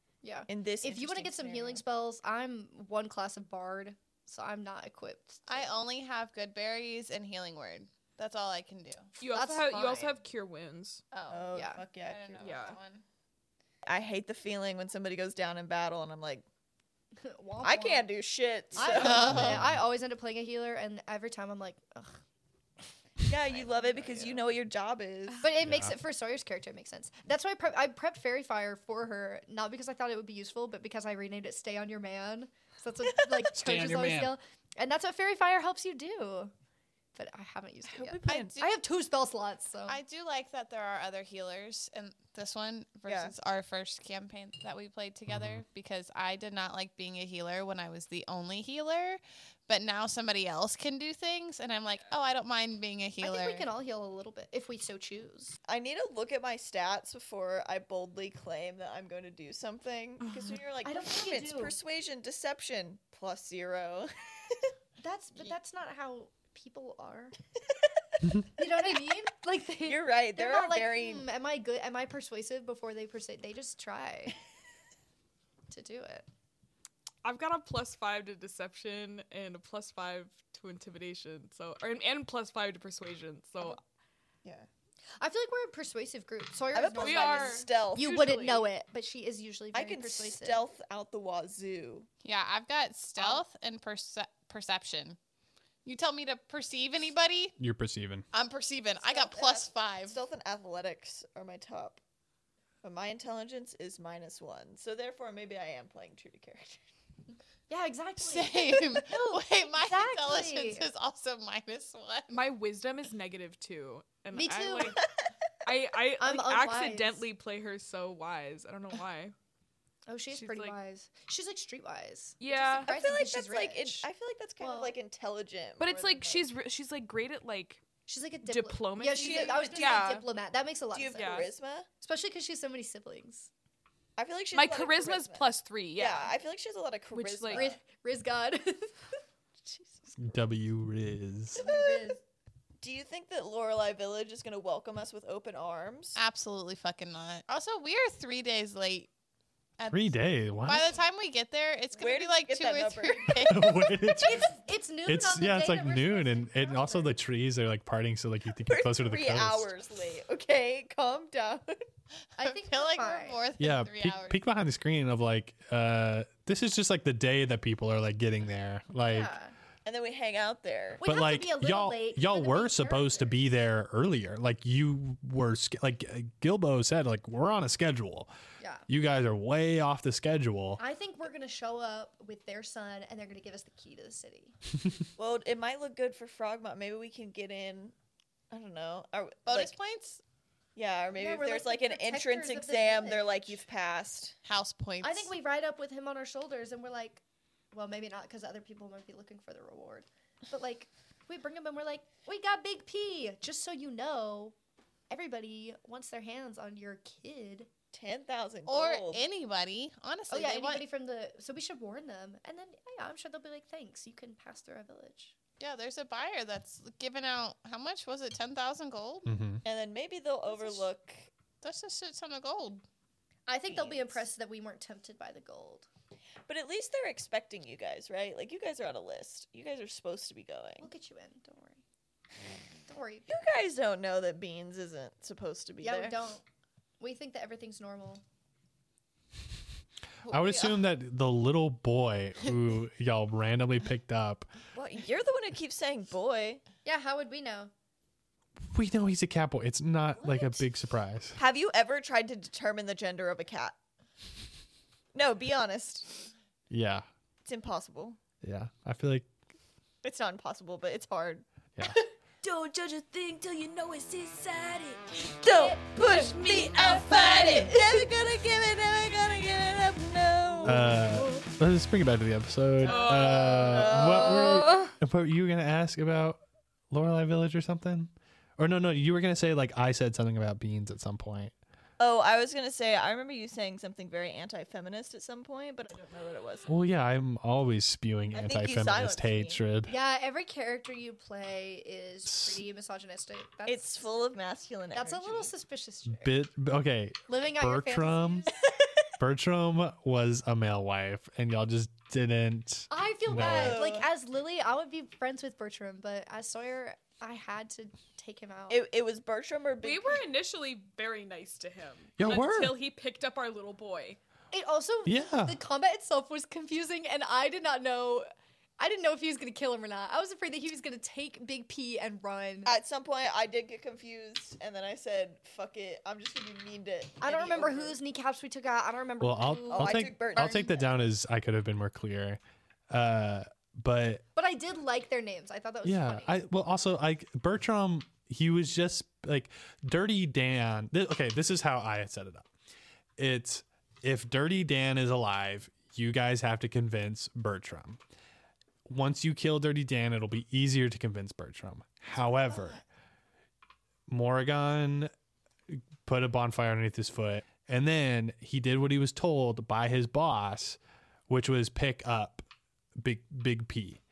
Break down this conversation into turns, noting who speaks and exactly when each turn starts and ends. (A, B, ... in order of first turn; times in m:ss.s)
0:00.2-0:05.7 A
0:00.5-0:01.8 B
0:05.5-0:09.1 C
0:09.2-0:11.0 D
0:09.2-0:10.2 A
0:11.1-0:11.5 C
0:11.3-0:12.5 B
0:11.5-0:11.8 A
0:12.0-0:13.0 C
0:12.4-0:12.8 D
0:13.9-0:16.4 B
0:17.2-0:18.1 A
0:17.6-0:19.6 B
0:18.7-0:22.2 A
0:19.0-0:19.5 C
0:19.1-0:19.8 E
0:23.3-0:25.4 B
0:23.5-0:24.4 A
0:25.4-0:36.5 A
0:25.6-0:26.0 E
0:33.5-0:34.4 E
0:37.2-0:40.0 A
0:37.9-0:38.6 B
0:38.2-0:38.7 C
0:39.9-0:53.7 C
0:43.1-0:43.4 B
0:45.3-0:45.6 E
0:53.2-0:55.6 A
0:55.7-1:04.6 B
1:00.2-1:00.6 D
1:00.8-1:01.8 A
1:05.0-1:07.3 A
1:08.6-1:14.4 A
1:09.9-1:11.3 B
1:15.7-1:16.3 A
1:17.2-1:23.8 D
1:25.2-1:30.7 A
1:26.7-1:28.4 B
1:27.0-1:28.7 D
1:29.7-1:32.1 B
1:32.2-1:35.2 C
1:33.2-1:33.4 B
1:35.8-1:37.6 C
1:37.6-1:38.3 E
1:38.3-1:40.2 C
1:39.0-1:42.0 B
1:42.8-1:46.8 B
1:47.7-1:50.9 A
1:48.2-1:52.5 C
1:52.3-1:55.0 D
1:54.3-1:55.0 A
1:55.6-1:59.3 D
1:56.2-1:57.3 A
2:00.1-2:04.1 A
2:00.3-2:00.8 D
2:02.4-2:02.9 D
2:02.8-2:06.5 B
2:04.6-2:05.0 A
2:05.8-2:07.8 D
2:08.1-2:11.5 A
2:08.4-2:10.3 D
2:09.0-2:10.2 B
2:10.9-2:11.9 B
2:11.2-2:11.5 D
2:12.0-2:13.5 A
2:14.2-2:17.8 B
2:14.5-2:16.4 D
2:17.1-2:17.6 D
2:17.5-2:19.0 A
2:19.7-2:20.2 B
2:20.2-2:21.6 E
2:21.6-2:22.1 B
2:21.6-2:22.2 A
2:22.8-2:26.2 B
2:26.2-2:29.1 C
2:29.8-2:33.7 C
2:29.9-2:30.9 E
2:32.0-2:33.6 B
2:33.5-2:34.5 E
2:34.1-2:37.2 A
2:35.1-2:39.7 E
2:38.7-2:41.8 B
2:42.4-2:43.4 A
2:42.4-2:44.4 C
2:43.6-2:49.3 E
2:49.1-2:49.5 A
2:49.8-2:51.0 B
2:51.0-2:53.4 A
2:51.0-2:58.3 E
2:58.6-2:58.9 A
2:58.9-3:00.8 E
3:00.8-3:04.6 A
3:05.2-3:07.9 B
3:08.5-3:09.8 B
3:09.5-3:10.2 C
3:10.8-3:14.4 B
3:11.2-3:13.6 A
3:14.4-3:15.3 C
3:15.0-3:17.2 A
3:17.7-3:24.6 A
3:25.1-3:27.7 A
3:27.9-3:29.2 B
3:28.7-3:30.9 C
3:30.3-3:35.3 A
3:35.6-3:39.3 C
3:39.2-3:39.6 E
3:39.6-3:41.3 B
3:40.5-3:40.9 A
3:41.6-3:42.8 C
3:43.5-3:45.9 A
3:43.7-3:44.2 B
3:46.5-3:50.9 B
3:50.8-3:51.8 A
3:52.9-3:53.3 A
3:53.3-3:56.2 B
3:55.8-3:56.4 A
3:57.0-3:58.2 A
4:00.3-4:00.7 B
4:00.3-4:04.5 E
4:04.8-4:06.6 B
4:06.8-4:07.7 A
4:08.6-4:11.4 E
4:11.4-4:13.8 B
4:15.1-4:16.3 B
4:16.7-4:17.0 E
4:17.4-4:18.2 B
4:18.4-4:19.3 E
4:20.0-4:21.9 B
4:22.4-4:31.3 B
4:25.5-4:27.9 A
4:30.6-4:36.4 E
4:32.8-4:34.8 B
4:32.9-4:33.8 D
4:36.9-4:41.5 E
4:42.0-4:46.7 B
4:46.7-4:49.9 E
4:48.3-4:49.6 B
4:49.9-4:54.1 A
4:52.3-4:52.6 E
4:53.6-4:55.5 B
4:54.9-4:56.3 A
4:56.1-4:58.5 E
4:57.3-4:58.6 A
4:59.2-5:03.8 E
5:02.9-5:08.8 A
5:03.4-5:04.1 B
5:08.7-5:10.2 B
5:09.8-5:14.2 D
5:12.2-5:12.8 E
5:14.5-5:18.3 A
5:15.1-5:15.6 E
5:18.8-5:22.7 A
5:22.7-5:28.0 B
5:27.2-5:30.0 A
5:29.2-5:34.2 E
5:29.7-5:31.0 B
5:34.4-5:36.4 A
5:35.8-5:42.5 E
5:43.2-5:48.0 E
5:48.9-5:52.8 E
5:54.1-5:55.1 E
5:55.7-6:02.4 E
6:03.0-6:04.0 E